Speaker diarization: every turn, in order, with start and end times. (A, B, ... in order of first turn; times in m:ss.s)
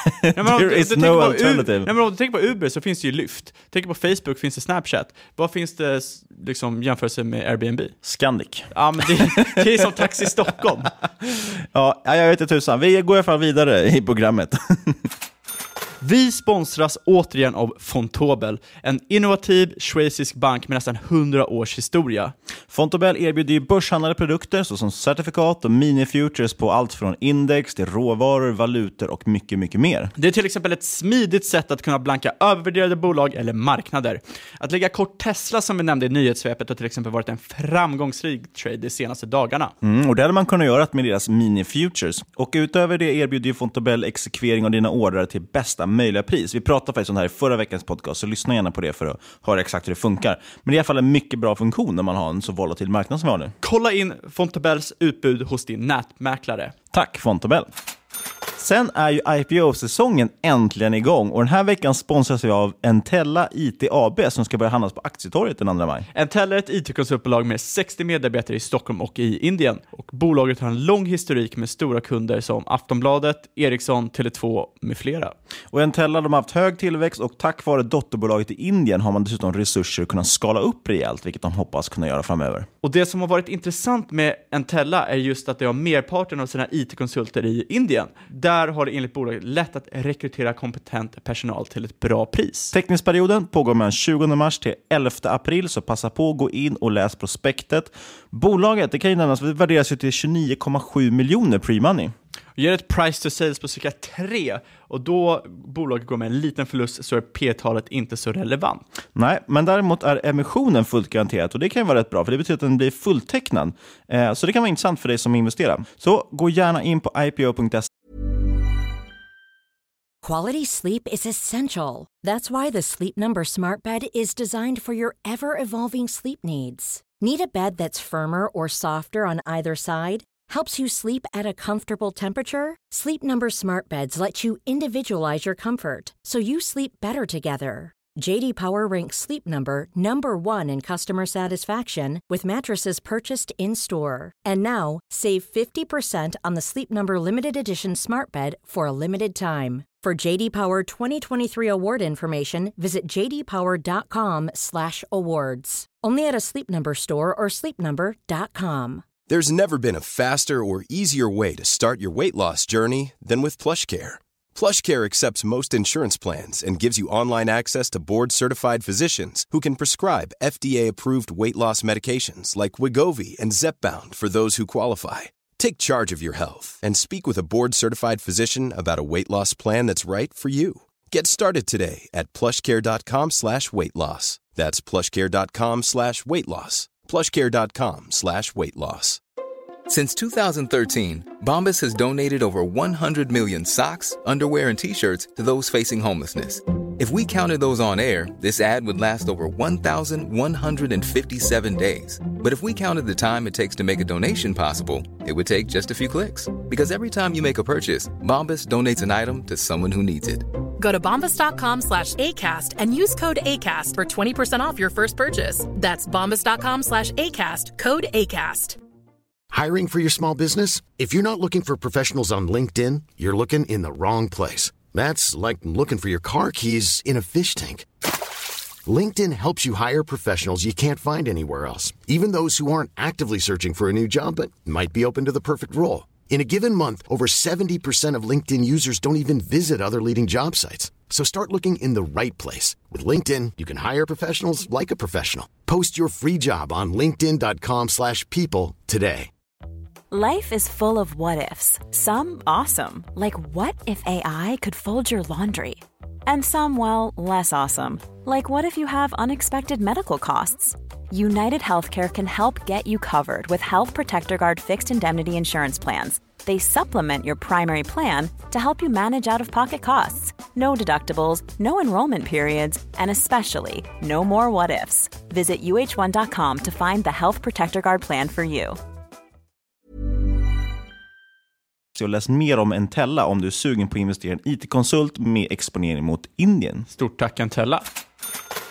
0:00.2-0:01.9 A
0:00.4-0:08.0 B
0:08.0-0:09.8 A
0:08.7-0:10.9 B
0:11.2-0:15.0 A
0:16.0-0:22.4 B
0:22.7-0:30.1 A
0:30.2-0:39.7 B
0:39.8-0:53.5 A
0:53.6-0:56.7 B
0:56.9-0:57.7 A
0:58.6-1:06.1 A
1:06.1-1:15.3 B
1:15.7-1:22.7 A
1:22.8-1:32.7 B
1:32.7-1:42.1 A
1:42.6-1:48.8 B
1:49.2-1:57.9 A
2:00.2-2:39.1 C
2:39.3-3:09.2 D
3:09.9-3:30.5 E
3:30.8-3:38.8 F
3:39.5-3:47.9 G
3:48.9-4:09.3 G
4:10.1-4:38.8 H
4:42.0-4:46.9 A
4:46.9-4:47.8 B